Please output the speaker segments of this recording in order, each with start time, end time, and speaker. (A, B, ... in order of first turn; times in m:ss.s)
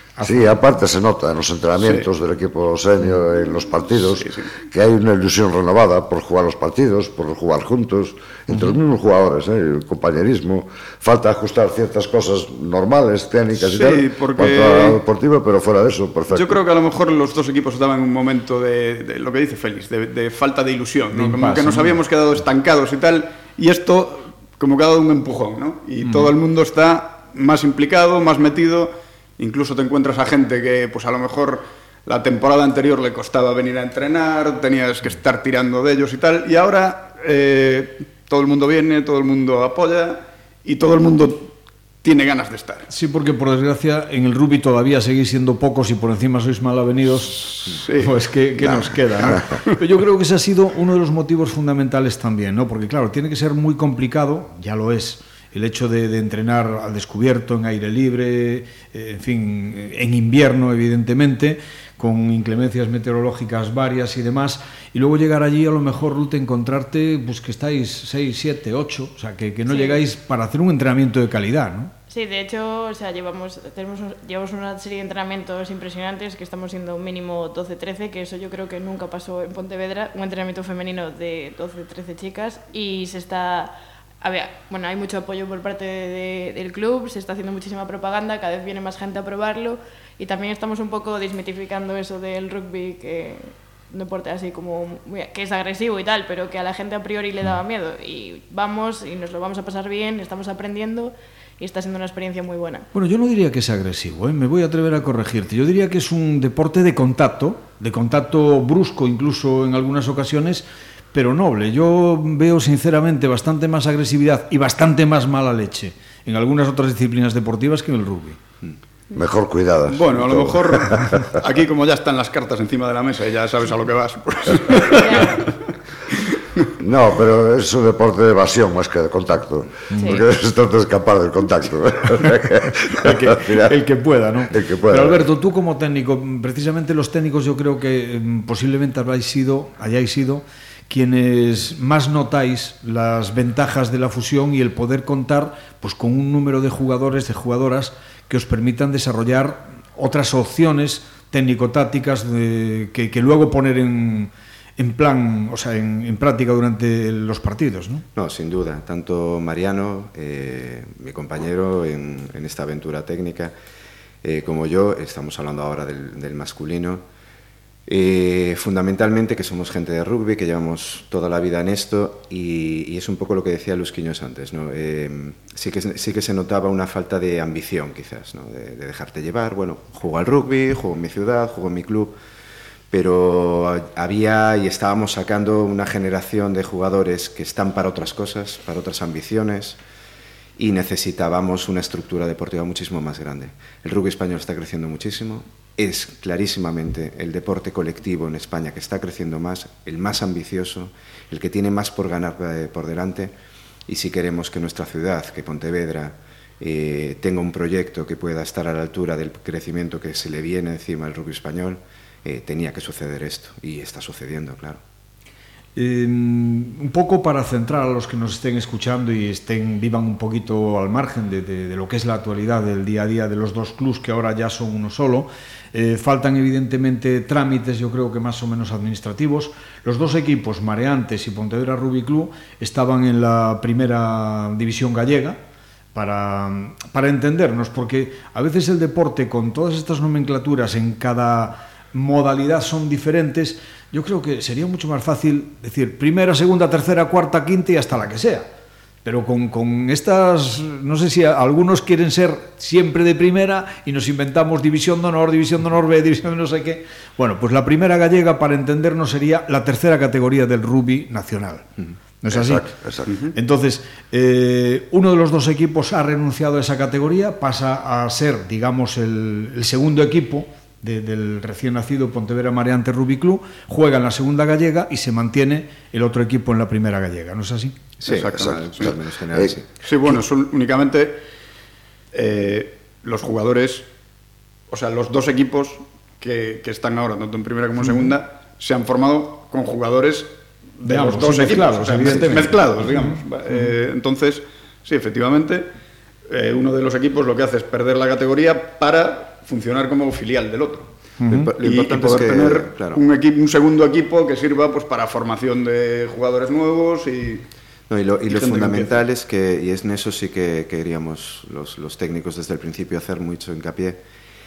0:00.2-0:00.6 A
0:00.2-0:16.6 B
0:01.8-0:02.1 C
0:04.0-0:04.5 C
0:13.6-0:15.0 C
0:16.3-0:42.9 C
0:21.1-0:22.0 A
0:26.0-0:26.3 A
0:42.9-1:11.9 A
0:47.7-0:48.2 C
1:09.7-1:10.0 D
1:12.1-1:42.9 D
1:42.9-1:58.4 A
1:59.1-2:01.3 B
1:59.9-2:05.7 C
2:05.0-2:05.4 D
2:06.8-2:13.7 B
2:09.9-2:10.2 A
2:10.0-2:10.3 D
2:13.0-2:38.0 A
2:14.5-2:15.3 B
2:38.2-2:43.5 E
2:44.2-2:47.0 E
2:47.9-3:02.2 E
3:02.9-3:09.8 E
3:10.6-3:23.4 E
3:23.9-3:34.8 E
3:35.8-3:55.4 A
3:56.0-4:08.5 A
4:09.0-4:21.7 A
4:22.2-4:22.6 A
4:22.3-4:23.1 B
4:23.4-4:37.8 A
4:38.0-4:39.8 E
4:38.1-4:39.5 B
4:39.8-4:41.2 C
4:42.1-4:43.9 C
4:44.7-4:55.7 C
4:50.8-4:53.7 A
4:56.3-5:00.9 C
5:01.2-5:01.5 A
5:01.3-5:03.0 E
5:01.6-5:07.4 C
5:07.9-5:14.0 E
5:08.3-5:09.0 C